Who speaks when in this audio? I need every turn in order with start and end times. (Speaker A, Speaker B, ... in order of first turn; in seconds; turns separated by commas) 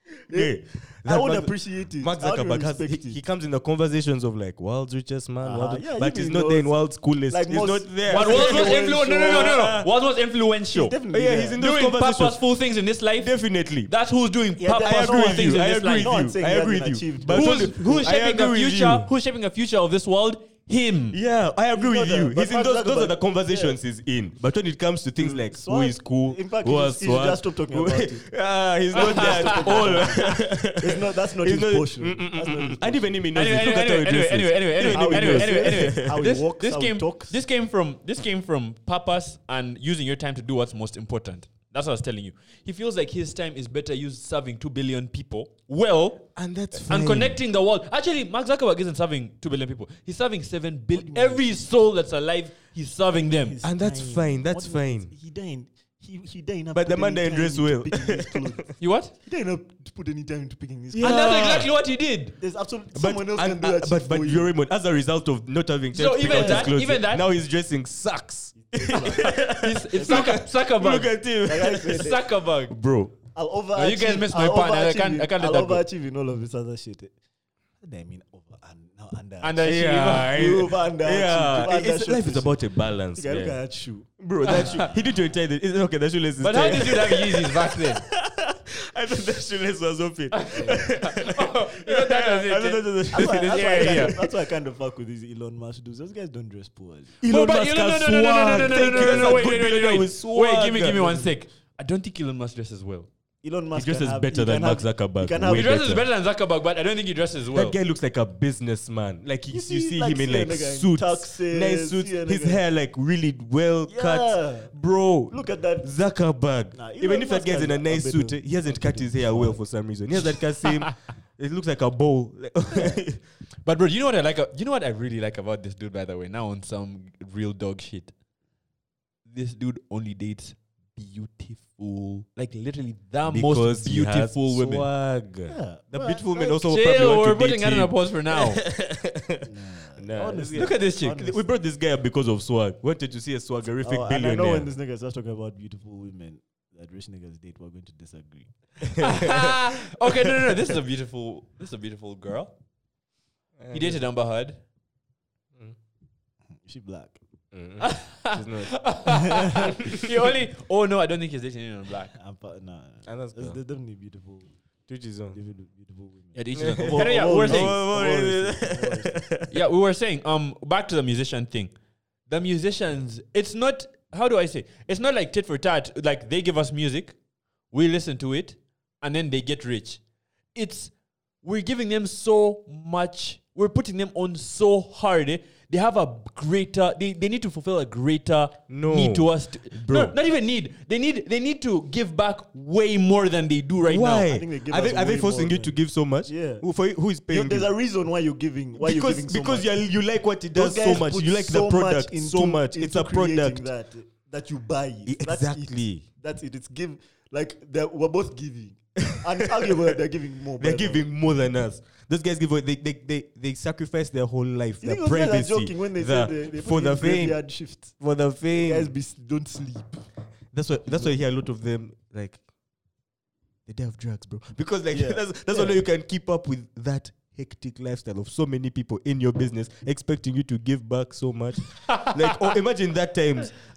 Speaker A: 0.3-3.2, Speaker B: 0.3-9.9, Speaker A: 5.4-6.7, Speaker A: 7.3-9.7, Speaker C: 8.1-11.0, Speaker A: 10.7-11.6, Speaker B: 11.1-12.4, Speaker C: 11.6-13.3, Speaker B: 13.2-13.9, Speaker C: 13.9-16.2, Speaker A: 14.6-18.1, Speaker B: 14.8-19.1, Speaker C: 17.3-21.2, Speaker B: 21.1-36.3, Speaker A: 21.7-23.8, Speaker A: 25.2-28.3, Speaker A: 28.9-33.1, Speaker C: 29.0-30.1, Speaker C: 33.4-53.6, Speaker A: 34.8-37.4, Speaker B: 46.4-47.4, Speaker A: 50.9-51.6, Speaker A: 53.4-61.3, Speaker B: 53.6-55.1, Speaker B: 56.7-58.7, Speaker C: 58.8-59.1, Speaker B: 60.9-61.7, Speaker C: 61.0-62.4, Speaker A: 62.4-64.5, Speaker B: 63.0-72.1, Speaker C: 65.9-67.2, Speaker A: 66.3-66.7, Speaker A: 68.6-69.4, Speaker C: 68.9-71.1, Speaker A: 69.9-70.5, Speaker A: 71.4-72.2, Speaker C: 71.8-72.8, Speaker B: 72.7-73.2, Speaker A: 73.3-77.1, Speaker C: 73.8-75.8, Speaker A: 77.8-84.1, Speaker C: 79.4-80.4, Speaker B: 79.6-83.6, Speaker B: 84.2-94.3, Speaker C: 84.5-84.9, Speaker C: 86.4-88.0, Speaker C: 90.3-94.2, Speaker A: 90.5-90.8, Speaker A: 93.1-97.2, Speaker B: 97.2-101.2, Speaker C: 97.3-103.1, Speaker A: 98.7-99.5, Speaker A: 100.9-101.3, Speaker A: 103.4-105.9, Speaker B: 103.8-106.1, Speaker C: 105.5-107.8, Speaker B: 107.5-123.2, Speaker A: 109.5-112.6, Speaker A: 113.9-114.7, Speaker A: 115.3-115.9, Speaker A: 116.7-119.6, Speaker C: 120.6-120.9, Speaker C: 123.7-128.1, Speaker C: 129.3-134.9, Speaker B: 133.3-144.7, Speaker A: 135.5-136.4, Speaker C: 136.4-138.6, Speaker A: 139.4-141.4, Speaker C: 140.5-141.2, Speaker A: 143.8-149.3, Speaker B: 148.8-150.6, Speaker C: 149.0-152.5, Speaker B: 153.6-154.0, Speaker C: 153.7-154.6, Speaker A: 156.6-157.2, Speaker B: 157.5-158.8, Speaker C: 157.8-162.1, Speaker A: 159.1-159.7, Speaker B: 159.8-160.1, Speaker A: 162.1-164.5, Speaker B: 163.1-163.6, Speaker B: 164.9-165.4, Speaker A: 165.3-169.2, Speaker C: 166.3-167.8, Speaker B: 166.6-169.6, Speaker C: 169.5-171.7, Speaker C: 172.3-177.2, Speaker C: 177.7-180.0, Speaker C: 180.6-180.9, Speaker C: 181.4-194.3, Speaker B: 188.7-190.2, Speaker B: 193.9-197.7, Speaker A: 194.2-196.7, Speaker A: 197.3-199.7, Speaker B: 198.8-203.7, Speaker A: 200.5-211.1, Speaker B: 205.1-206.0, Speaker B: 210.6-218.9, Speaker A: 214.8-218.0, Speaker A: 218.5-220.0, Speaker B: 220.5-222.4, Speaker B: 223.7-233.5, Speaker A: 224.9-225.8, Speaker C: 231.9-232.6